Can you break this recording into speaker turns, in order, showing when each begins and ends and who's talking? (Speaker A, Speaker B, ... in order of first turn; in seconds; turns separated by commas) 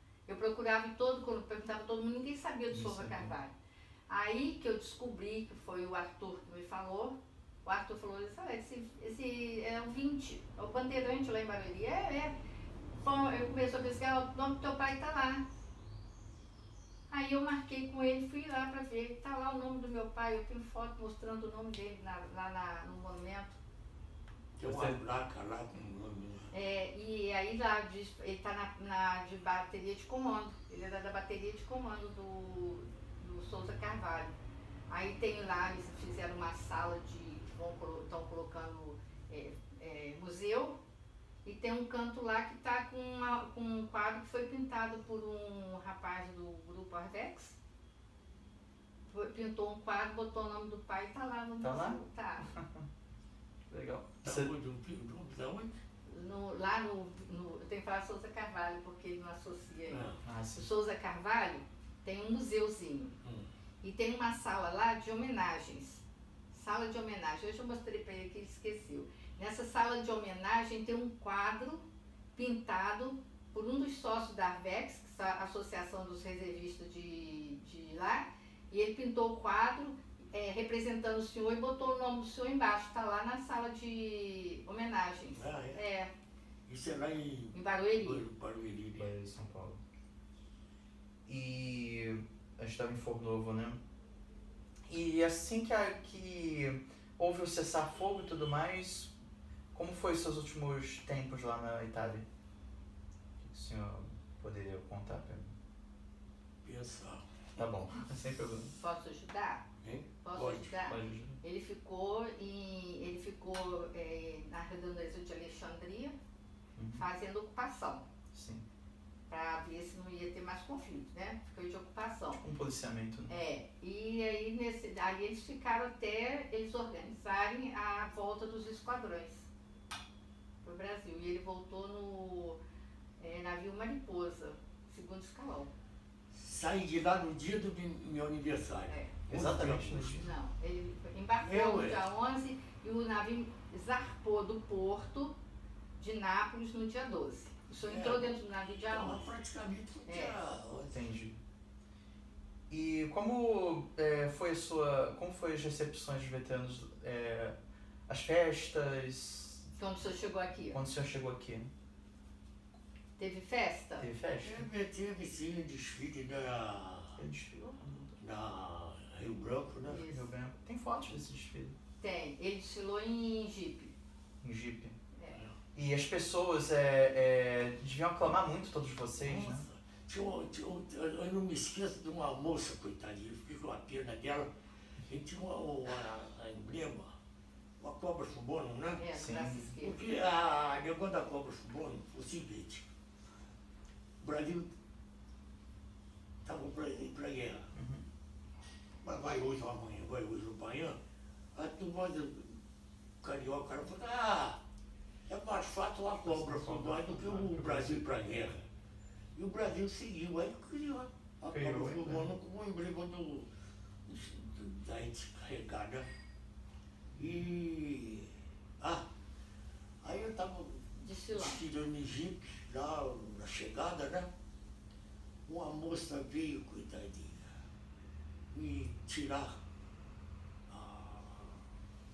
Speaker A: 0.3-3.5, Speaker B: 2.7-3.3, Speaker A: 4.1-12.3, Speaker A: 12.9-15.5, Speaker A: 17.1-23.6, Speaker C: 24.6-26.5, Speaker B: 24.6-25.0, Speaker A: 26.5-34.3, Speaker A: 34.9-40.8, Speaker A: 41.5-47.6, Speaker A: 49.1-52.5, Speaker B: 51.6-52.9, Speaker B: 53.7-54.5, Speaker C: 54.2-55.8, Speaker A: 56.1-63.2, Speaker C: 59.9-60.2, Speaker B: 60.2-60.7, Speaker A: 63.8-86.1, Speaker C: 85.3-85.8, Speaker C: 86.7-89.1, Speaker A: 87.5-88.2, Speaker B: 89.0-89.8, Speaker B: 91.3-93.8, Speaker B: 94.9-99.1, Speaker B: 99.7-102.3, Speaker B: 103.4-105.5, Speaker C: 106.6-107.4, Speaker B: 107.6-108.7, Speaker A: 108.8-109.6, Speaker C: 109.8-110.7, Speaker A: 110.2-116.2, Speaker B: 110.8-111.4, Speaker B: 116.8-117.0, Speaker A: 116.9-118.1, Speaker B: 118.3-118.7, Speaker A: 119.3-122.4, Speaker B: 122.4-123.3, Speaker A: 123.3-129.5, Speaker A: 130.6-132.6, Speaker A: 133.2-135.7, Speaker C: 136.3-140.2, Speaker A: 138.9-139.2, Speaker B: 139.3-140.3, Speaker A: 140.1-145.3, Speaker C: 141.4-142.1, Speaker A: 146.0-149.3, Speaker C: 147.8-151.1, Speaker A: 150.1-150.4, Speaker B: 150.9-151.4, Speaker B: 152.7-157.6, Speaker B: 158.1-159.7, Speaker A: 159.8-160.8, Speaker B: 160.7-161.7, Speaker A: 163.2-164.1, Speaker B: 164.0-164.7, Speaker C: 164.4-167.2, Speaker B: 167.2-168.2, Speaker C: 168.2-170.1, Speaker A: 169.9-170.3, Speaker B: 169.9-171.8, Speaker A: 172.0-173.9, Speaker B: 174.4-175.0, Speaker A: 175.1-175.4, Speaker B: 175.7-179.7, Speaker C: 179.2-184.5, Speaker C: 185.1-187.2, Speaker C: 187.8-189.0, Speaker A: 189.0-190.0, Speaker B: 189.1-189.7, Speaker C: 189.8-192.8, Speaker C: 194.2-194.7, Speaker C: 196.4-197.7, Speaker B: 197.7-198.1, Speaker C: 199.0-201.0, Speaker C: 201.6-202.6, Speaker C: 203.2-204.6, Speaker C: 205.3-208.7, Speaker B: 206.2-208.0, Speaker C: 209.4-213.5, Speaker B: 211.5-212.3, Speaker C: 214.1-216.1, Speaker C: 217.2-219.1, Speaker B: 217.2-217.5, Speaker C: 220.0-224.3, Speaker A: 221.0-221.6, Speaker C: 225.5-227.6, Speaker C: 228.5-229.6, Speaker C: 230.7-231.6